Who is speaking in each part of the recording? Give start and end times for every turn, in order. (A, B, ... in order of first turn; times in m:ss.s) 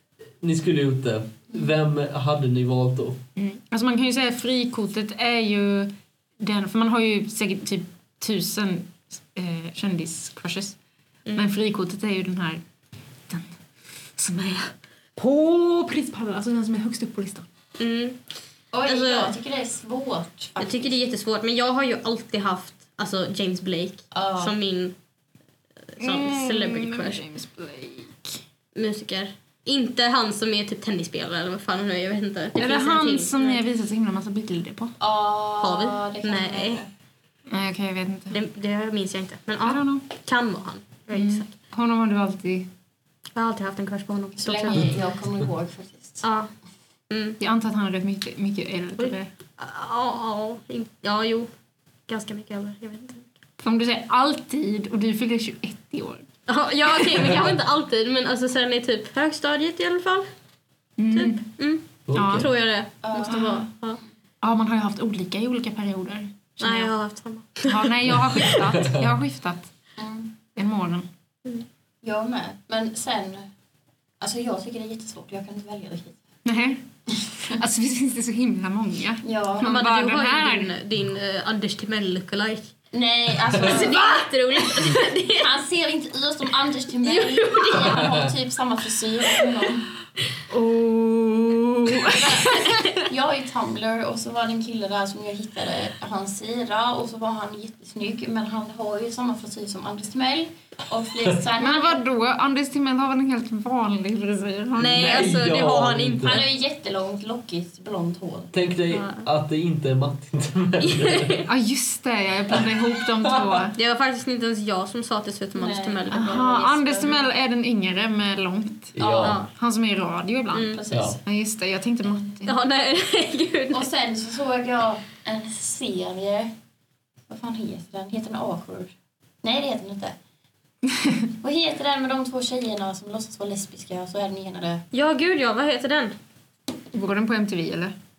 0:00.4-0:03.2 A
0:03.4-0:10.8 B
0:11.4-0:12.6 B
0:13.3-0:17.4 B
0:17.8-0:18.2 C
0:18.7-0:21.0 D
0:18.8-0:19.4 C
0:20.6-0:24.9 C
0:24.1-0:24.5 D
0:26.0-0:27.2 C
0:26.0-0:28.4 B
0:28.7-0:33.6 C
0:32.6-0:35.0 B
0:35.0-0:36.9 D
0:35.6-0:36.8 C
0:37.5-0:38.4 B
0:38.3-0:41.5 C
0:39.6-0:40.0 B
0:41.1-0:42.7 B
0:43.4-0:45.0 C
0:44.4-0:46.2 D
0:46.2-0:46.5 C
0:47.1-0:47.4 C
0:47.4-0:49.3 B
0:49.0-0:51.5 C
0:52.1-0:53.3 C
0:53.6-0:56.2 B
0:56.5-1:00.3 C
0:57.2-0:57.5 A
1:01.0-1:01.4 B
1:01.1-1:04.0 C
1:02.1-1:02.5 A
1:02.1-1:02.5 B
1:03.0-1:03.7 D
1:03.3-1:03.6 B
1:04.4-1:06.9 B
1:06.6-1:07.8 C
1:07.6-1:09.7 B
1:08.4-1:09.1 A
1:10.0-1:10.3 D
1:10.6-1:11.1 B
1:12.0-1:13.5 D
1:14.2-1:16.2 D
1:16.4-1:20.7 B
1:19.2-1:19.7 D
1:19.6-1:22.7 C
1:22.9-1:24.2 D
1:23.5-1:25.5 C
1:23.5-1:23.8 A
1:24.8-1:29.9 D
1:27.0-1:28.0 C
1:27.8-1:28.3 A
1:30.5-1:33.0 B
1:32.0-1:42.0 D
1:41.6-1:45.2 B
1:44.8-1:46.4 C
1:44.8-1:46.5 A
1:46.2-1:48.5 D
1:48.5-1:51.4 A
1:48.9-1:49.2 C
1:50.8-1:51.5 C
1:51.5-1:53.8 B
1:53.2-1:53.6 A
1:53.7-1:57.2 C
1:55.5-1:57.1 D
1:56.1-2:02.5 B
1:58.9-1:59.4 A
1:59.0-1:59.4 D
1:59.2-1:59.5 C
2:00.5-2:00.8 C
2:00.7-2:01.2 D
2:00.9-2:01.2 A
2:02.4-2:03.9 C
2:03.7-2:06.5 D
2:07.3-2:10.2 D
2:11.4-2:14.8 D
2:14.9-2:16.2 C
2:16.9-2:17.9 B